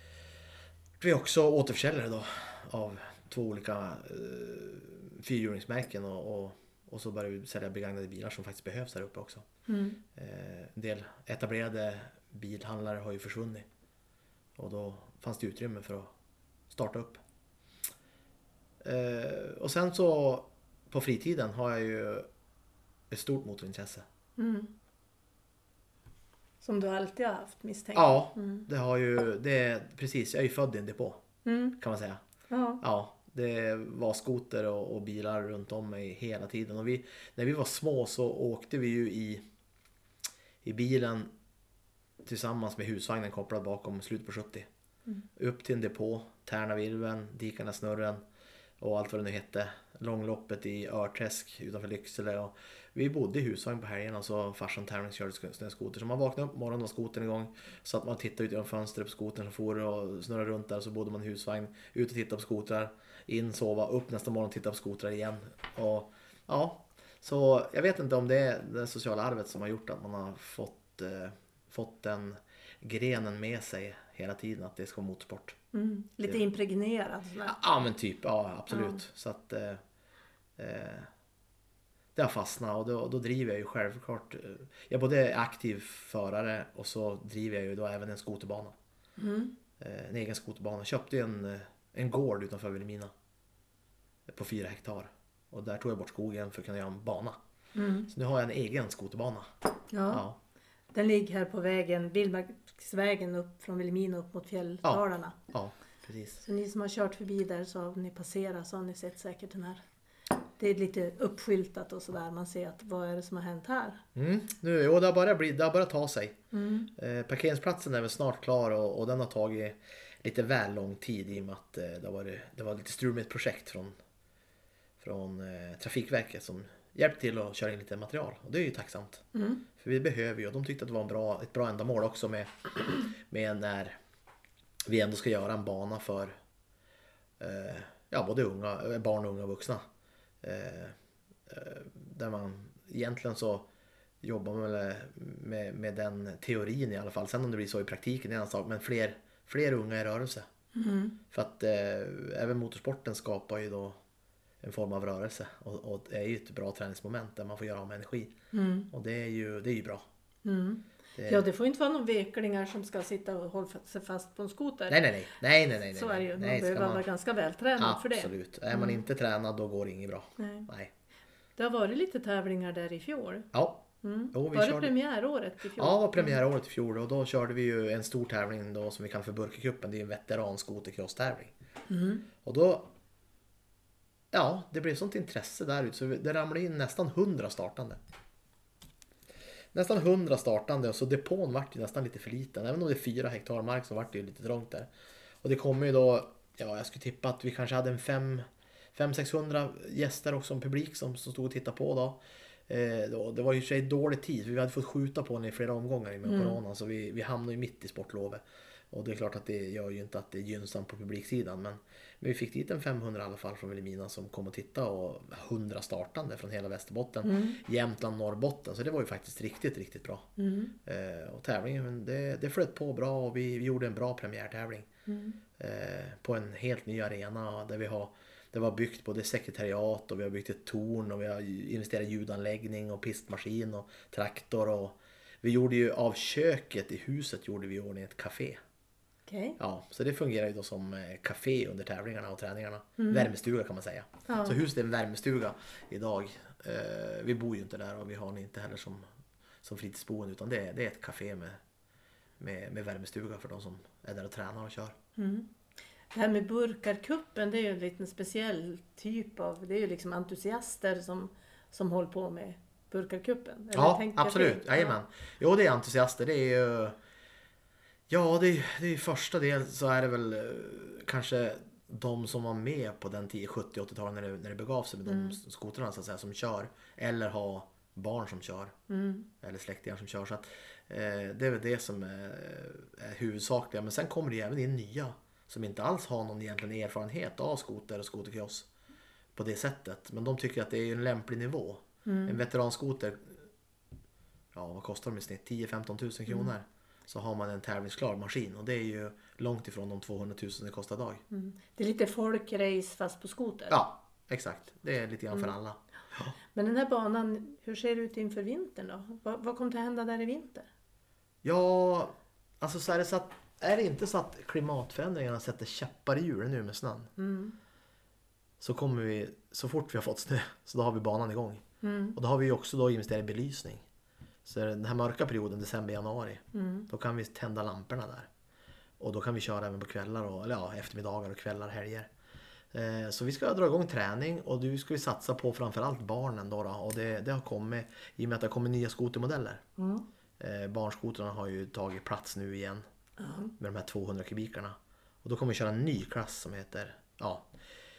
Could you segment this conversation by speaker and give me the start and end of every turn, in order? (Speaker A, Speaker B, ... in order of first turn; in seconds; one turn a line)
Speaker A: 1.0-9.4
Speaker B: 9.7-10.0
Speaker A: 10.1-13.7
Speaker A: 14.6-16.1
Speaker A: 16.7-17.2
Speaker A: 18.8-22.3
Speaker A: 23.1-24.1
Speaker B: 24.4-24.7
Speaker B: 26.6-28.6
Speaker A: 27.9-31.2
Speaker B: 31.4-31.8
Speaker A: 31.8-32.2
Speaker B: 32.5-32.8
Speaker A: 32.8-39.4
Speaker A: 40.6-41.3
Speaker A: 42.2-44.7
Speaker A: 45.4-48.2
Speaker A: 48.8-75.6
Speaker B: 75.7-77.6
Speaker A: 77.4-79.8
Speaker B: 78.7-79.0
Speaker A: 80.6-81.1
Speaker A: 82.1-88.7
Speaker B: 89.2-89.5
Speaker A: 89.8-93.1
Speaker A: 94.3-97.4
Speaker B: 97.7-98.1
Speaker A: 98.1-99.5
Speaker B: 99.9-100.2
Speaker A: 100.1-100.4
Speaker B: 100.9-105.4
Speaker A: 104.8-106.4
Speaker B: 106.4-109.8
Speaker B: 110.6-114.0
Speaker A: 114.1-116.4
Speaker B: 116.5-116.9
Speaker A: 117.0-123.9
Speaker A: 125.0-129.2
Speaker B: 129.3-129.6
Speaker A: 129.8-133.9
Speaker A: 134.9-136.3
Speaker A: 137.4-139.8
Speaker A: 140.4-140.9
Speaker A: 141.5-143.7
Speaker A: 144.2-150.5
Speaker B: 150.7-151.2
Speaker A: 151.3-154.0
Speaker A: 154.6-158.3
Speaker B: 158.5-158.9
Speaker A: 158.9-160.0
Speaker B: 160.4-165.0
Speaker A: 161.2-161.4
Speaker A: 164.9-167.0
Speaker B: 165.9-169.0
Speaker A: 167.8-170.9
Speaker B: 170.4-170.7
Speaker B: 171.6-173.5
Speaker A: 173.5-174.9
Speaker B: 174.0-176.4
Speaker A: 175.8-181.5
Speaker B: 181.9-182.2
Speaker A: 182.4-182.9
Speaker A: 184.3-188.0
Speaker A: 189.7-194.9
Speaker A: 195.4-220.3
Speaker B: 206.2-206.6
Speaker B: 217.2-217.6
Speaker B: 220.4-220.7
Speaker A: 220.8-224.9
Speaker B: 225.1-225.4
Speaker A: 225.6-238.6
Speaker B: 239.2-239.6
Speaker A: 239.6-249.0
Speaker B: 243.0-243.3
Speaker B: 244.3-244.6
Speaker A: 249.6-251.6
Speaker A: 252.4-254.9
Speaker B: 255.2-255.5
Speaker B: 256.1-265.0
Speaker A: 263.7-266.9
Speaker A: 268.1-278.7
Speaker B: 275.1-275.4
Speaker B: 278.9-279.3
Speaker A: 279.4-288.7
Speaker A: 289.3-293.4
Speaker B: 292.0-292.4
Speaker A: 294.5-301.2
Speaker B: 301.3-303.8
Speaker A: 303.7-306.3
Speaker B: 306.5-310.7
Speaker A: 311.4-317.1
Speaker B: 317.2-317.5
Speaker A: 318.6-321.6
Speaker B: 321.8-322.2
Speaker A: 322.1-323.8
Speaker A: 324.4-328.3
Speaker B: 326.5-326.9
Speaker A: 329.0-332.1
Speaker A: 332.7-339.6
Speaker B: 339.8-340.0
Speaker A: 340.4-342.8
Speaker B: 343.2-343.5
Speaker A: 343.6-347.5